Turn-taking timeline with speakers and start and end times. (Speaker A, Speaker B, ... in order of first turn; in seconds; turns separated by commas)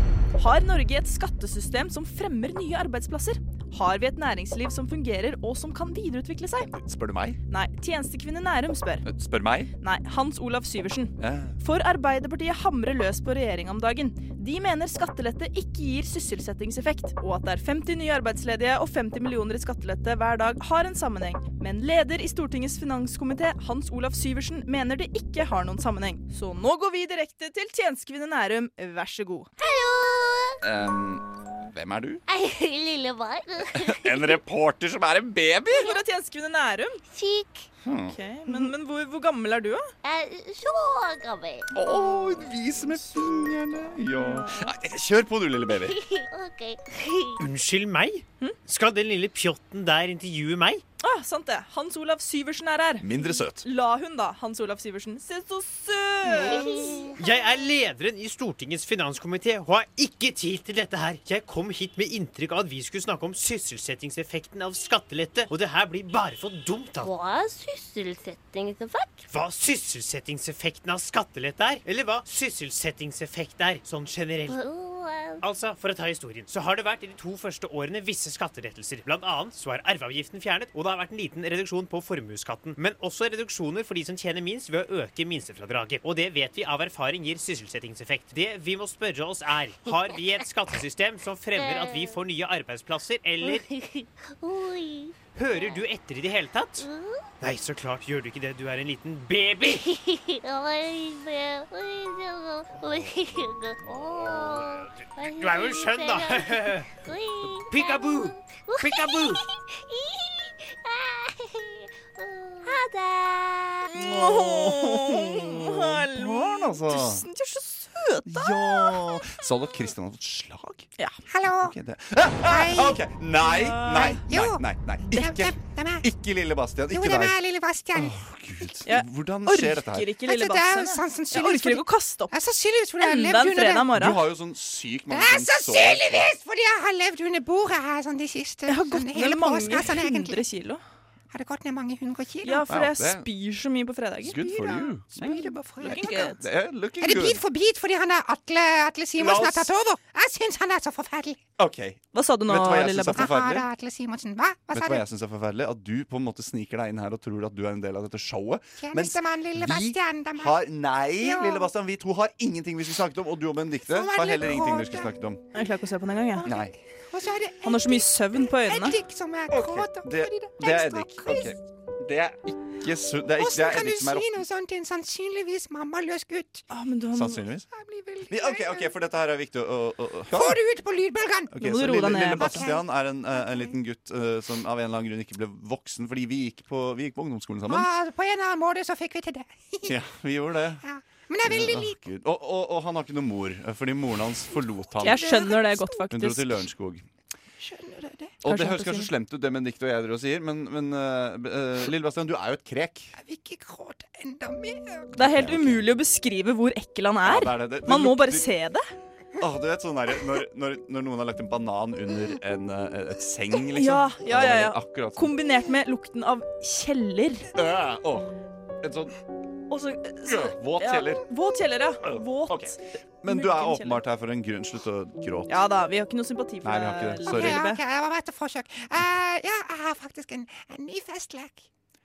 Speaker A: 0.3-6.7, Speaker B: 6.7-7.4, Speaker A: 7.5-9.0, Speaker B: 9.0-9.7, Speaker A: 9.8-29.5, Speaker B: 11.2-11.6, Speaker C: 29.6-30.6, Speaker B: 30.6-32.2, Speaker C: 32.3-34.1, Speaker B: 33.7-35.9, Speaker A: 35.7-37.0, Speaker C: 37.1-37.6, Speaker B: 37.8-38.1, Speaker A: 38.1-39.9, Speaker C: 40.0-41.6, Speaker B: 41.7-46.0, Speaker A: 44.2-44.7, Speaker C: 46.2-46.8, Speaker D: 47.4-50.8, Speaker A: 51.0-57.1, Speaker B: 53.0-53.6, Speaker D: 57.2-67.1, Speaker C: 67.1-69.2, Speaker D: 69.3-74.6, Speaker C: 74.5-75.3, Speaker D: 75.4-93.7, Speaker C: 91.6-92.0, Speaker C: 93.7-95.1, Speaker D: 95.3-96.9, Speaker D: 97.4-99.9, Speaker C: 99.9-106.5, Speaker D: 105.2-106.9, Speaker C: 107.0-107.4, Speaker D: 107.5-109.4, Speaker C: 108.7-109.1, Speaker C: 109.9-111.5, Speaker C: 112.2-113.8, Speaker A: 113.9-119.2, Speaker B: 113.9-117.2, Speaker B: 118.3-120.9, Speaker E: 121.3-121.7, Speaker B: 121.6-127.4, Speaker E: 122.4-123.0, Speaker A: 123.4-124.3, Speaker E: 123.9-126.0, Speaker E: 126.9-128.2, Speaker B: 127.9-130.2, Speaker A: 128.8-132.3, Speaker E: 130.2-133.9, Speaker A: 133.0-134.3, Speaker B: 133.9-136.3, Speaker E: 135.1-140.4, Speaker A: 138.7-140.8, Speaker E: 141.3-142.7, Speaker A: 142.4-146.4, Speaker B: 142.7-143.2, Speaker B: 144.2-147.4, Speaker E: 145.2-146.3, Speaker E: 147.0-151.4, Speaker B: 149.2-149.7, Speaker B: 151.6-153.7, Speaker A: 152.1-153.3, Speaker E: 153.2-155.1, Speaker B: 154.7-165.4, Speaker E: 158.8-161.7, Speaker E: 163.9-165.1, Speaker A: 165.5-166.5, Speaker B: 166.4-166.7, Speaker E: 166.5-171.5, Speaker A: 167.6-169.0, Speaker B: 169.5-174.4, Speaker E: 173.3-176.6, Speaker A: 176.7-177.4, Speaker B: 177.1-177.7, Speaker E: 177.7-178.9, Speaker B: 178.3-180.6, Speaker E: 180.3-181.6, Speaker B: 181.5-187.9, Speaker A: 181.6-182.7, Speaker E: 182.4-183.7, Speaker E: 187.7-189.9, Speaker B: 189.8-190.8, Speaker E: 190.8-192.0, Speaker B: 191.4-197.0, Speaker A: 195.0-196.6, Speaker E: 195.1-195.8, Speaker E: 197.6-198.4, Speaker B: 198.4-203.1, Speaker A: 198.4-199.1, Speaker E: 203.2-205.1, Speaker A: 205.1-208.8, Speaker B: 205.2-205.9, Speaker B: 207.2-208.5, Speaker B: 209.4-215.3, Speaker A: 213.5-217.5, Speaker B: 217.6-218.3, Speaker B: 218.8-219.1, Speaker A: 219.7-224.0, Speaker B: 220.2-221.2, Speaker B: 222.0-225.5, Speaker A: 225.5-227.8, Speaker B: 226.6-227.7, Speaker E: 227.3-231.7